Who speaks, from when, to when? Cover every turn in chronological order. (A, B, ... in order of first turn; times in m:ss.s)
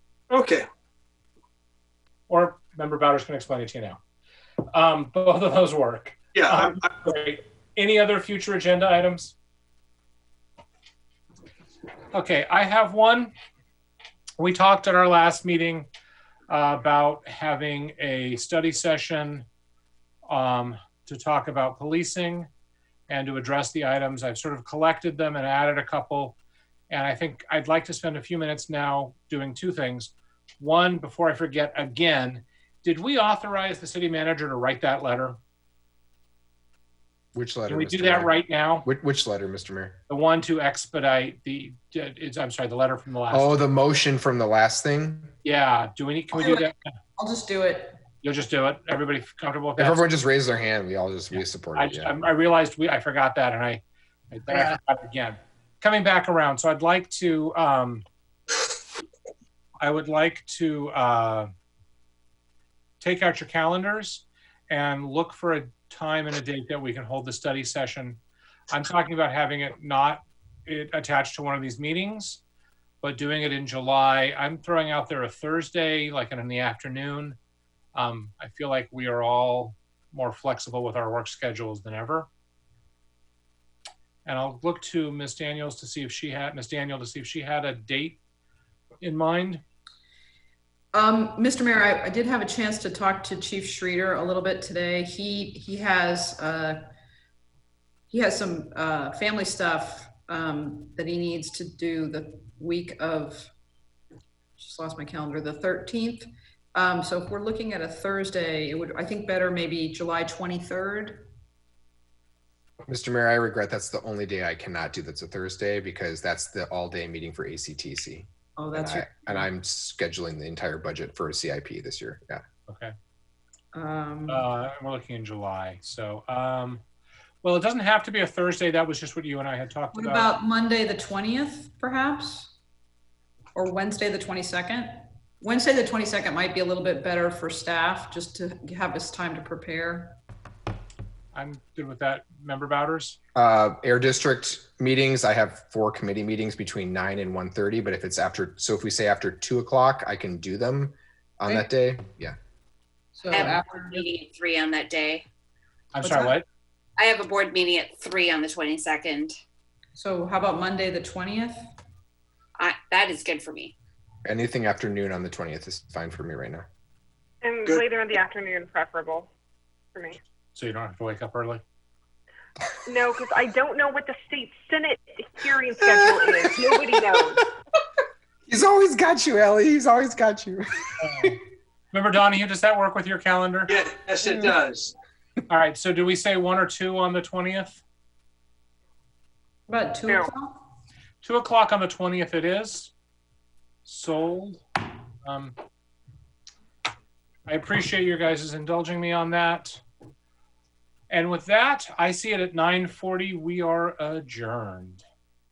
0:00.3-0:00.7 A
0:02.3-0:04.0 B
0:04.7-0:09.3 B
0:06.3-0:06.9 A
0:12.1-0:13.3 B
0:14.4-0:15.9 B
0:16.5-0:19.4 B
0:20.2-0:22.5 B
0:23.1-0:26.4 B
0:26.9-0:35.4 B
0:37.3-0:40.0 C
0:37.7-0:38.9 B
0:40.1-0:43.5 B
0:43.3-0:45.3 C
0:45.4-0:46.9 B
0:46.3-0:48.0 D
0:48.2-0:50.0 B
0:49.8-0:52.1 C
0:51.3-0:58.0 B
0:59.8-1:01.5 B
1:03.0-1:08.2 B
1:08.7-1:12.4 B
1:13.0-1:17.4 B
1:17.9-1:22.3 B
1:24.2-1:28.2 B
1:29.0-1:29.6 B
1:30.9-1:36.8 D
1:38.1-1:43.5 D
1:44.6-1:51.3 D
1:52.9-2:02.4 C
1:58.6-1:59.4 D
2:02.7-2:02.9 B
2:03.7-2:04.5 D
2:04.3-2:06.8 B
2:07.4-2:10.3 B
2:09.9-2:12.5 D
2:13.5-2:20.2 D
2:21.3-2:23.2 B
2:23.3-2:32.3 C
2:33.1-2:34.0 D
2:33.3-2:35.2 E
2:35.9-2:36.4 B
2:36.0-2:36.3 D
2:37.0-2:39.4 E
2:40.0-2:41.6 D
2:42.6-2:43.7 E
2:44.2-2:46.7 C
2:47.4-2:49.3 F
2:49.9-2:50.2 F
2:50.5-2:51.6 B
2:52.8-2:57.5 F
2:58.5-3:01.3 C
3:01.0-3:01.4 B
3:01.9-3:03.7 B
3:03.7-3:04.9 A
3:05.5-3:07.8 B
3:09.7-3:10.6 D
3:11.2-3:12.9 B
3:13.8-3:14.6 B
3:15.2-3:15.5 B
3:17.4-3:19.8 B
3:21.1-3:25.0 B